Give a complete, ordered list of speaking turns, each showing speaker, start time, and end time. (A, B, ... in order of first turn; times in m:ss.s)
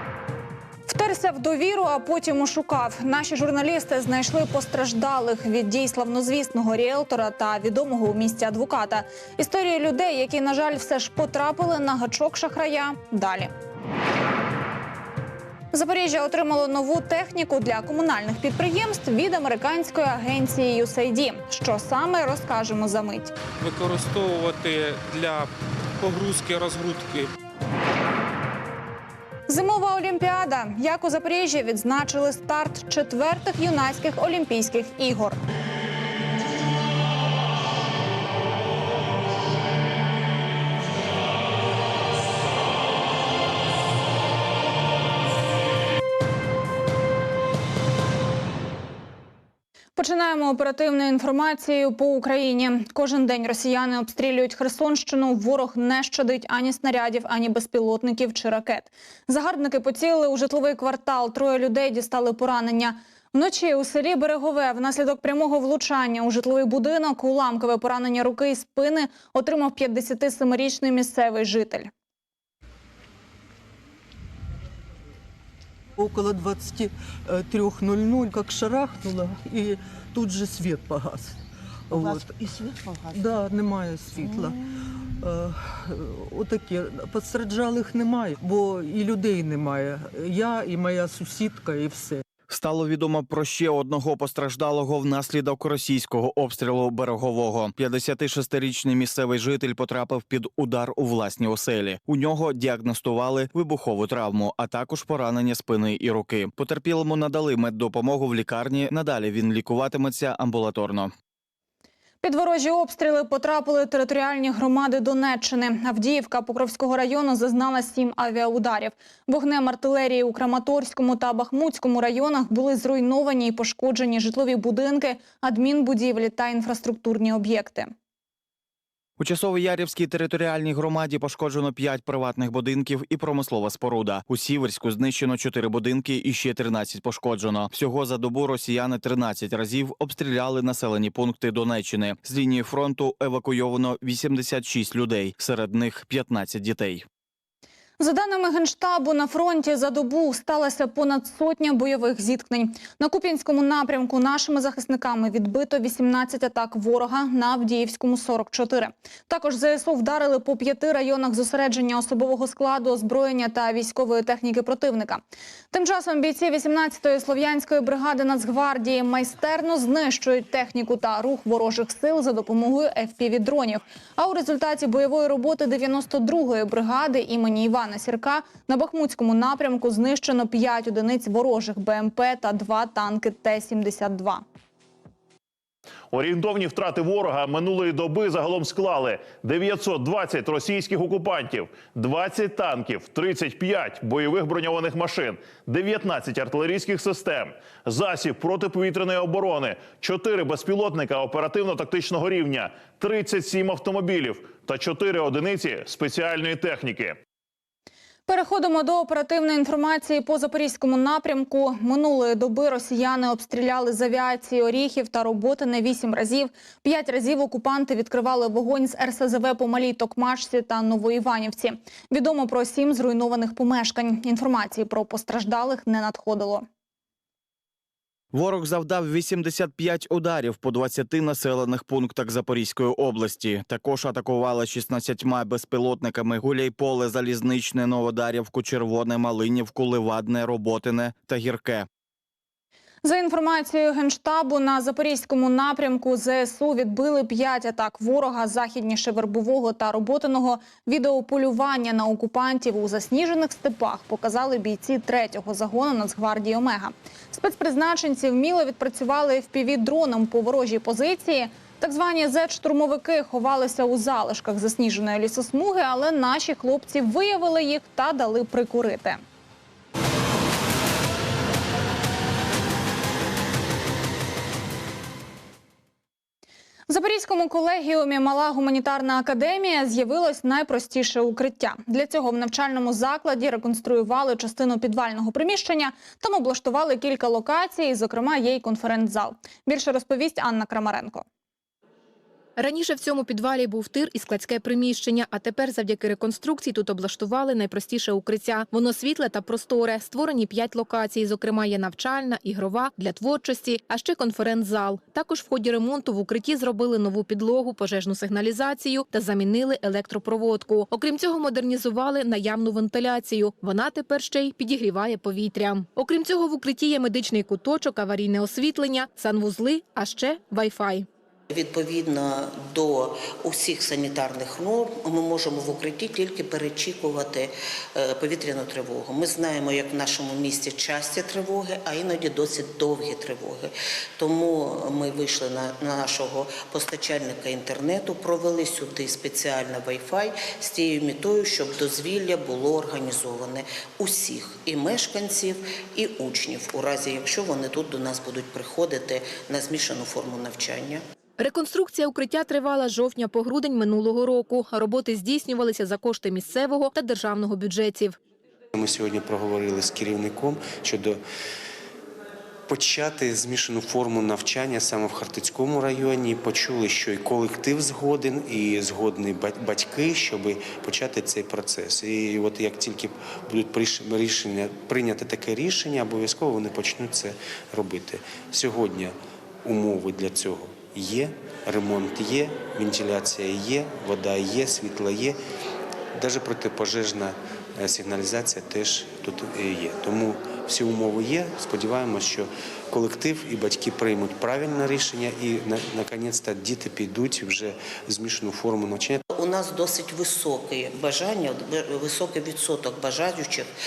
0:00.9-0:13.5 A
0:15.7-0:23.3 A
0:23.6-0:27.3 B
0:29.5-0:35.4 A
0:50.0-1:11.9 A
1:16.0-1:21.4 C
1:21.9-1:32.2 C
1:32.5-1:51.1 D
1:52.2-2:07.9 A
2:09.2-2:27.0 D
2:28.0-2:45.2 A
2:45.7-3:04.4 A
3:06.1-3:27.2 E
3:28.3-3:46.6 A
3:48.3-4:01.9 D
4:03.0-4:29.2 A
4:36.9-4:51.2 A
4:52.6-5:21.1 F
5:21.5-5:51.0 G
5:51.4-5:58.2 F
5:58.7-6:01.2 H
6:02.7-6:25.4 H
6:26.2-6:39.2 H
6:39.3-6:43.7 G